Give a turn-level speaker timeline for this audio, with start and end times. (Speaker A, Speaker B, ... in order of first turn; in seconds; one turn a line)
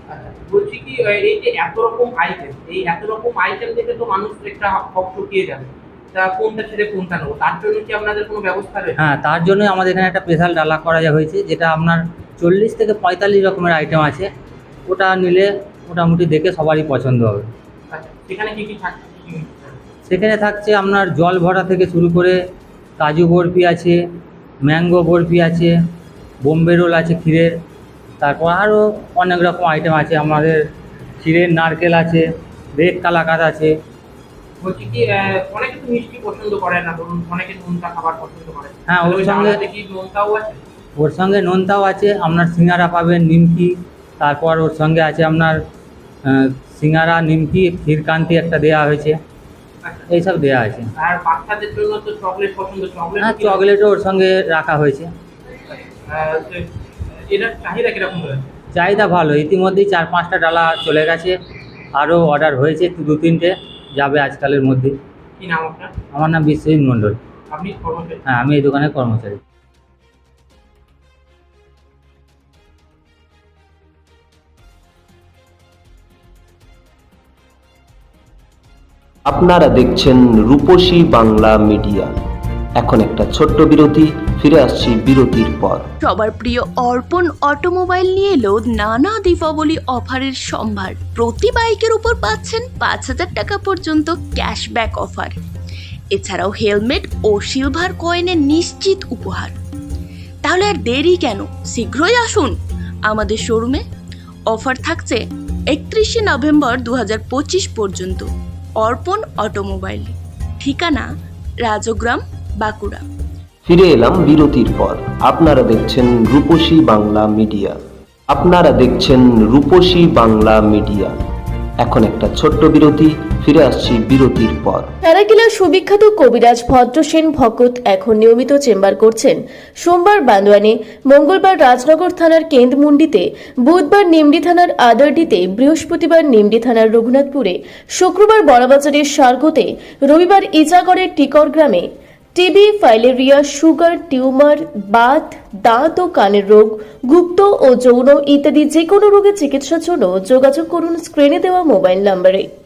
Speaker A: 0.1-9.0
Speaker B: 9.0-14.3
Speaker B: 14.9-17.4
Speaker A: 17.9-19.8
Speaker B: 20.1-22.4
Speaker B: 23.0-24.0
Speaker B: 24.6-25.7
Speaker B: 26.4-27.5
Speaker B: 28.2-30.6
Speaker B: 31.2-32.2
Speaker B: 32.8-33.7
Speaker A: 34.6-40.6
Speaker B: 38.9-39.6
Speaker B: 41.0-45.6
Speaker B: 46.3-49.2
Speaker B: 50.1-50.9
Speaker A: 51.0-53.6
Speaker B: 53.2-55.1
Speaker A: 56.1-56.6
Speaker A: 57.3-58.5
Speaker B: 58.7-61.3
Speaker B: 62.0-64.9
Speaker A: 65.4-65.9
Speaker B: 66.1-67.2
Speaker A: 67.5-68.2
Speaker B: 68.3-69.4
Speaker C: 79.3-82.1
Speaker C: 82.8-85.9
Speaker D: 86.0-95.3
Speaker D: 96.1-99.5
Speaker D: 100.4-102.5
Speaker D: 103.0-103.8
Speaker D: 104.5-111.0
Speaker D: 111.6-113.0
Speaker C: 113.6-117.8
Speaker C: 118.3-121.1
Speaker C: 121.8-124.9
Speaker E: 125.0-152.5